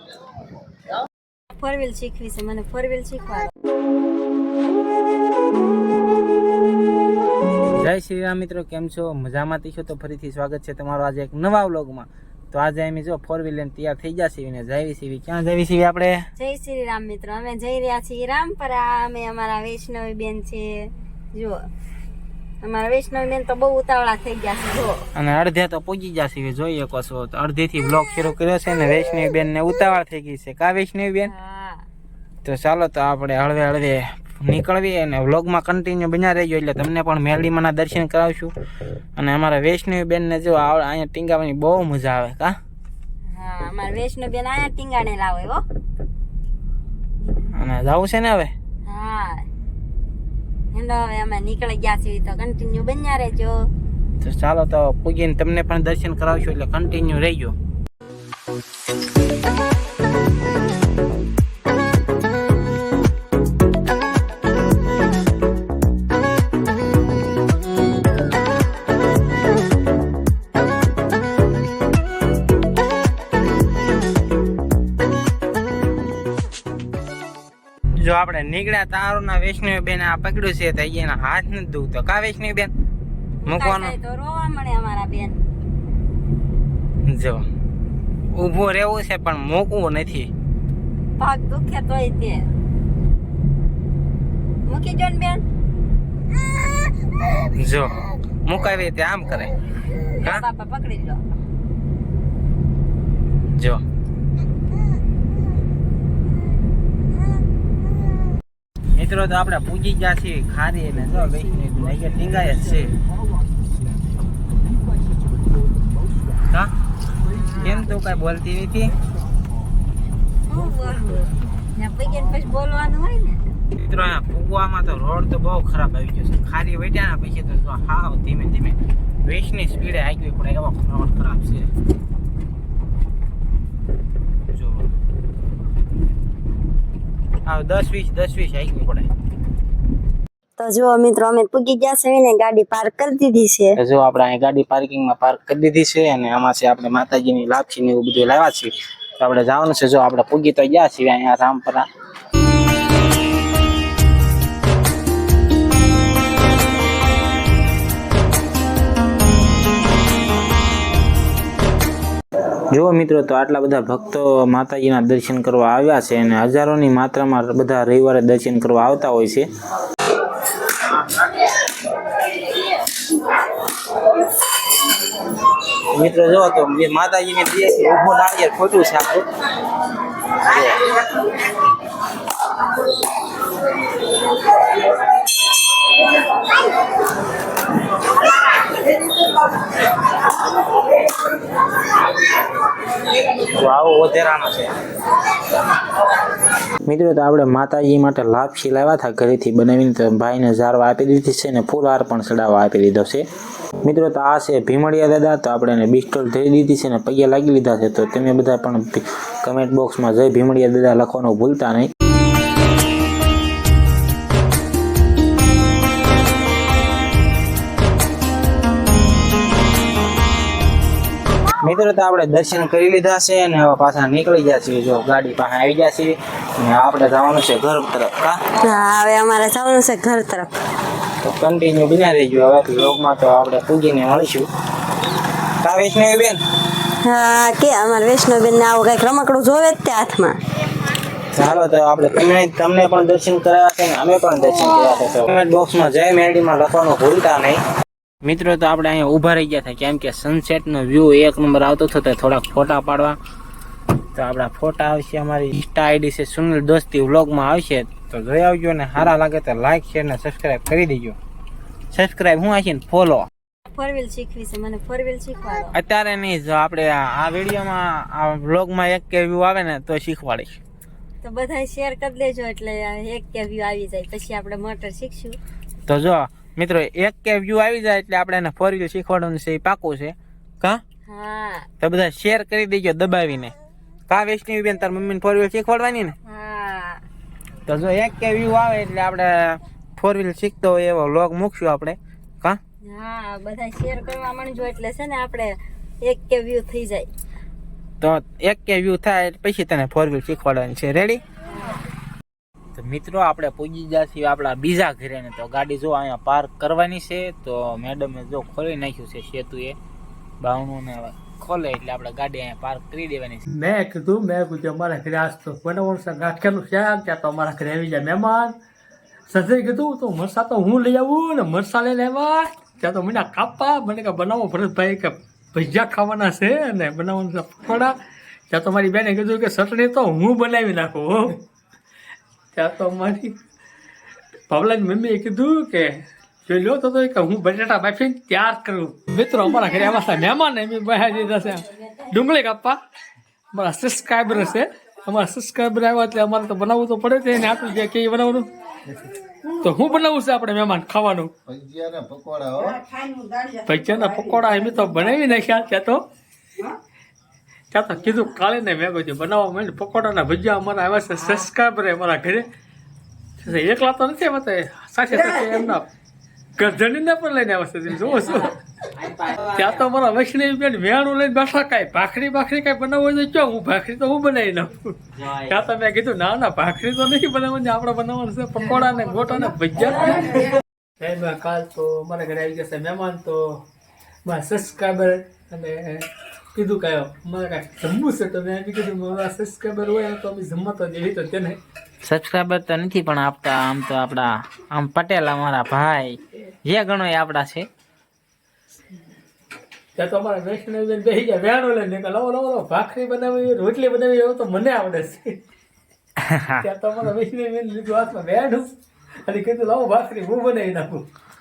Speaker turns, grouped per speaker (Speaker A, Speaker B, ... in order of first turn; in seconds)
Speaker A: 1.5-3.5, 16.4-21.6, 22.6-25.0, 31.2-31.8, 43.3-45.6, 48.8-49.5, 50.7-53.5, 83.4-85.4, 91.2-92.5, 94.7-95.4, 100.1-101.2, 117.3-117.9, 120.5-123.4, 140.6-143.8, 228.6-230.6, 237.0-240.4, 263.7-265.7, 271.2-275.4, 281.1-281.7, 286.2-287.0, 292.9-297.1, 301.5-301.8
Speaker B: 7.7-16.2, 25.1-31.3, 32.4-38.5, 39.1-42.5, 47.5-48.5, 54.2-57.5, 78.0-82.7, 83.5-83.9, 87.0-87.5, 88.3-90.3, 97.5-99.5, 103.5-103.8, 108.9-112.9, 117.6-118.9, 123.8-131.7, 134.5-134.9, 137.4-139.1, 143.8-151.8, 162.7-169.4, 175.7-179.2, 180.3-181.0, 193.3-194.7, 196.8-203.2, 203.8-211.9, 221.6-228.4, 231.2-234.5, 235.6-236.4, 241.3-247.6, 248.2-253.2, 254.1-261.2, 261.9-263.3, 265.7-270.6, 275.9-280.8, 281.8-283.5, 284.1-286.1, 287.6-292.6, 298.0-301.2, 302.7-309.8, 310.4-313.5, 369.0-369.5, 375.2-375.5, 392.0-397.7, 406.2-406.7
Speaker C: 313.5-318.6, 319.3-328.0, 328.5-331.4, 332.5-333.4, 334.5-342.8, 343.5-348.5, 349.5-351.3, 353.5-356.0, 357.7-362.5, 363.4-365.9, 366.6-368.6, 369.5-383.6, 384.2-391.6, 399.9-405.4, 406.6-411.1